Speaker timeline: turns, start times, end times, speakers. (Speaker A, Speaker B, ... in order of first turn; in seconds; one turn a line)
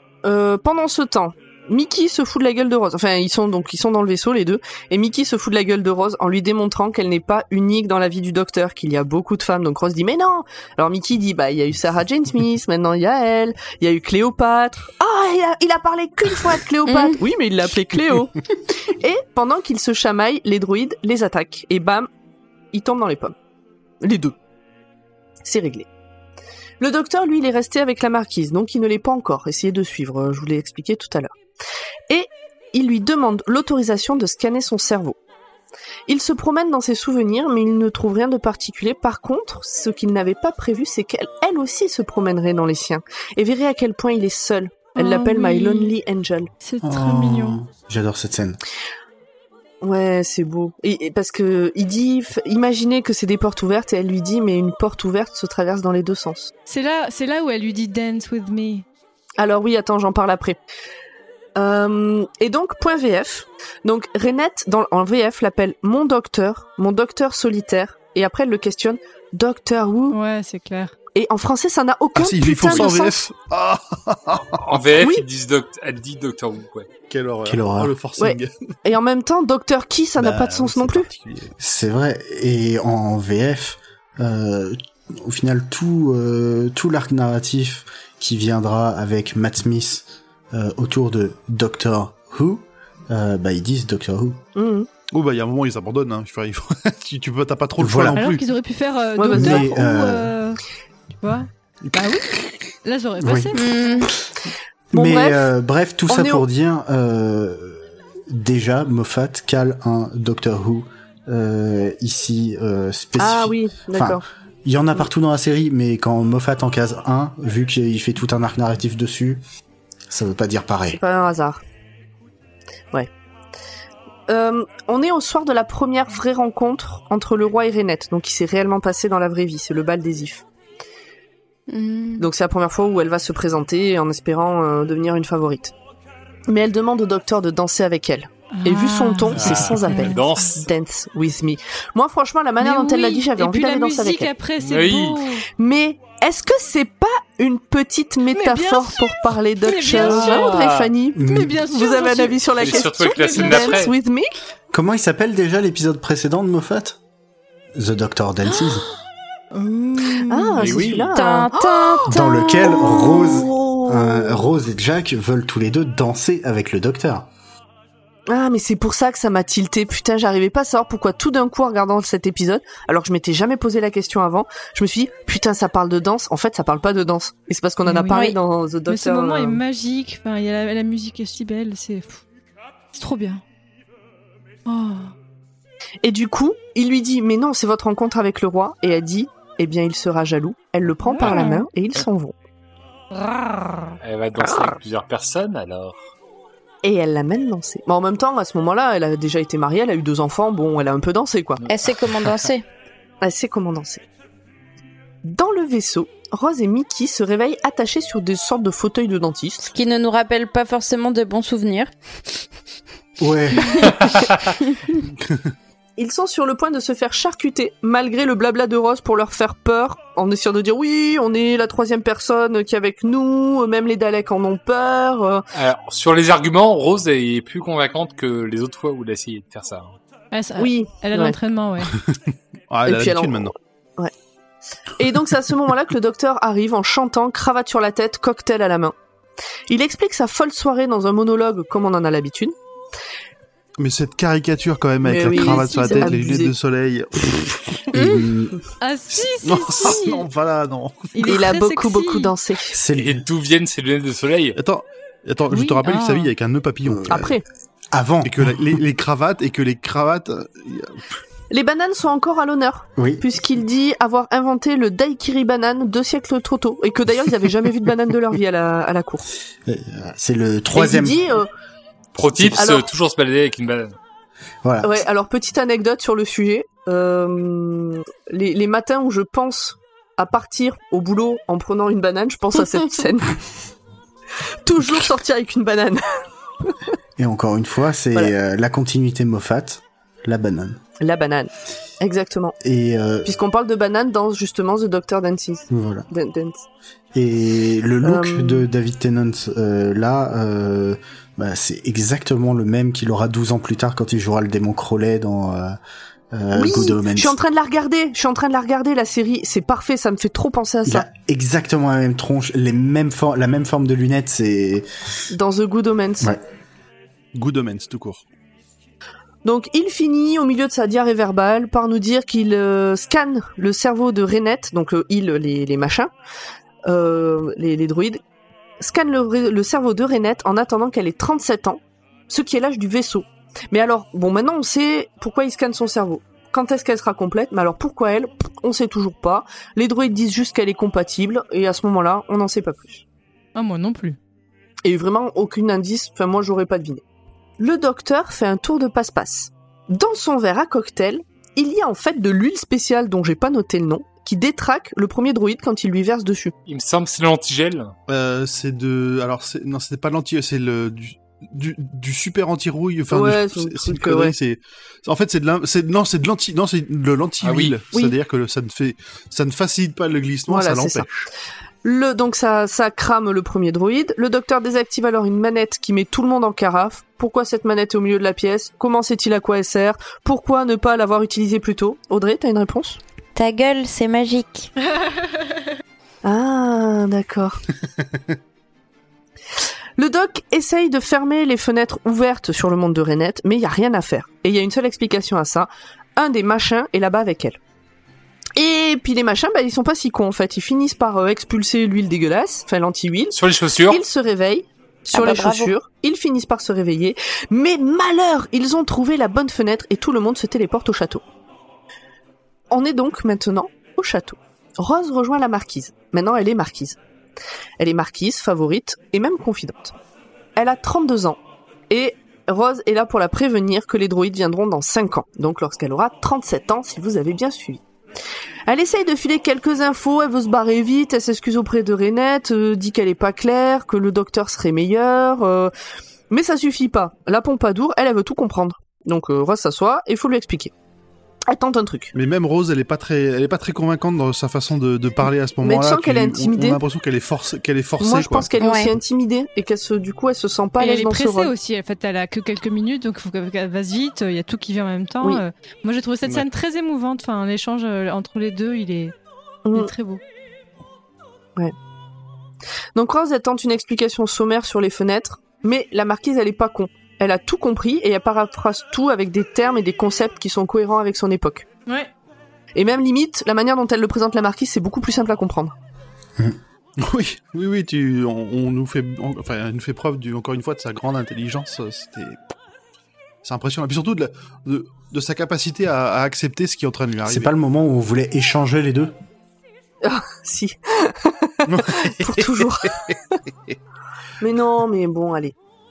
Speaker A: 0.2-22.1
Speaker B: 16.9-17.2
Speaker A: 22.7-23.4
Speaker A: 24.0-24.4
Speaker A: 25.4-25.9
Speaker A: 26.8-31.3
Speaker A: 32.1-35.2
Speaker A: 36.1-46.5
Speaker C: 45.0-46.0
Speaker C: 46.6-47.6
Speaker D: 46.8-48.6
Speaker A: 49.8-56.5
Speaker C: 56.7-58.9
Speaker A: 59.4-60.6
Speaker A: 61.6-70.2
Speaker C: 70.1-71.0
Speaker A: 71.1-73.3
Speaker E: 72.2-74.7
Speaker F: 74.6-76.9
Speaker A: 75.0-75.3
Speaker E: 77.1-78.5
Speaker D: 77.5-78.0
Speaker A: 78.2-81.1
Speaker E: 80.2-81.5
Speaker D: 81.6-94.4
Speaker A: 94.5-94.9
Speaker E: 95.1-98.4
Speaker D: 97.8-98.2
Speaker C: 98.2-100.6
Speaker A: 99.2-99.8
Speaker D: 99.3-100.3
Speaker C: 101.2-104.0
Speaker D: 103.2-103.6
Speaker B: 103.5-104.1
Speaker D: 104.9-119.4
Speaker A: 104.9-105.5
Speaker A: 106.1-106.4
Speaker A: 113.2-114.2
Speaker D: 120.1-121.0
Speaker A: 120.9-121.6
Speaker A: 124.3-130.4
Speaker B: 131.7-132.3
Speaker A: 132.2-135.7
Speaker A: 136.5-144.3
Speaker C: 138.5-140.5
Speaker F: 139.3-140.7
Speaker C: 142.6-145.5
Speaker F: 144.6-145.2
Speaker A: 145.6-154.3
Speaker C: 148.3-150.6
Speaker F: 149.9-150.9
Speaker D: 151.2-151.6
Speaker C: 151.2-153.9
Speaker F: 152.6-154.0
Speaker D: 154.7-157.0
Speaker D: 157.8-158.8
Speaker C: 159.5-160.6
Speaker A: 160.3-164.4
Speaker F: 160.6-161.1
Speaker B: 161.1-163.2
Speaker D: 162.1-167.3
Speaker A: 168.3-179.6
Speaker C: 177.9-178.3
Speaker B: 178.1-178.4
Speaker C: 178.9-182.2
Speaker C: 182.9-183.4
Speaker C: 184.7-185.1
Speaker A: 186.0-192.3
Speaker C: 191.1-191.5
Speaker B: 191.3-191.6
Speaker C: 193.1-193.9
Speaker F: 194.0-196.1
Speaker A: 194.4-194.8
Speaker A: 196.8-201.6
Speaker F: 201.6-202.5
Speaker B: 201.7-202.7
Speaker A: 203.2-204.0
Speaker A: 205.2-209.7
Speaker B: 209.7-211.9
Speaker D: 213.2-214.1
Speaker B: 213.6-214.0
Speaker E: 215.2-215.5
Speaker A: 216.0-225.4
Speaker F: 225.5-229.9
Speaker C: 230.3-232.0
Speaker A: 230.6-231.4
Speaker E: 231.9-233.5
Speaker A: 232.9-234.1
Speaker A: 235.0-238.9
Speaker A: 239.7-242.6
Speaker E: 243.8-247.9
Speaker A: 245.0-246.5
Speaker C: 245.2-246.2
Speaker D: 247.9-248.6
Speaker C: 248.8-250.3
Speaker E: 249.2-251.2
Speaker C: 251.1-252.3
Speaker A: 251.2-252.8
Speaker D: 252.7-253.2
Speaker F: 252.9-254.6
Speaker E: 254.6-257.4
Speaker C: 255.5-256.3
Speaker D: 256.9-257.2
Speaker A: 257.1-257.4
Speaker D: 257.9-258.6
Speaker E: 258.2-261.2
Speaker A: 261.5-269.3
Speaker D: 263.0-263.2
Speaker D: 269.6-271.2
Speaker A: 270.7-271.5
Speaker F: 272.1-273.9
Speaker A: 272.5-272.9
Speaker D: 274.6-275.0
Speaker A: 274.8-283.4
Speaker A: 284.6-286.8
Speaker D: 287.2-290.8
Speaker A: 291.0-292.6
Speaker D: 292.6-293.4
Speaker A: 293.2-296.6
Speaker D: 295.7-296.1
Speaker D: 297.1-305.8
Speaker A: 298.0-298.7
Speaker D: 306.3-307.4
Speaker A: 306.6-311.1
Speaker D: 310.9-315.3
Speaker A: 315.3-316.3
Speaker E: 317.3-318.2
Speaker A: 319.4-326.1
Speaker A: 326.9-328.2
Speaker A: 328.8-343.0
Speaker C: 343.6-344.2
Speaker A: 344.8-347.0
Speaker A: 347.6-356.5
Speaker F: 356.7-357.9
Speaker E: 358.1-371.3
Speaker A: 363.1-364.4
Speaker F: 367.4-367.8
Speaker A: 370.5-371.1
Speaker A: 371.8-383.0
Speaker B: 383.4-384.7
Speaker A: 386.2-387.6
Speaker A: 390.0-397.6
Speaker A: 398.6-403.4
Speaker F: 403.3-404.0
Speaker A: 403.9-411.2
Speaker B: 405.1-405.8
Speaker A: 412.7-417.0
Speaker A: 417.8-419.9
Speaker A: 420.6-421.4
Speaker A: 421.9-427.8
Speaker A: 428.7-435.7
Speaker A: 436.3-440.7
Speaker A: 441.5-442.1
Speaker E: 442.1-448.5
Speaker A: 445.6-446.8
Speaker A: 448.0-451.5
Speaker B: 448.6-448.9
Speaker C: 450.8-459.1
Speaker A: 459.6-459.9
Speaker C: 459.7-460.2
Speaker A: 462.9-471.7
Speaker A: 472.8-475.7
Speaker E: 477.0-482.4
Speaker E: 483.4-487.5
Speaker D: 487.3-489.1
Speaker A: 490.0-493.0
Speaker E: 491.7-493.1
Speaker A: 494.4-495.6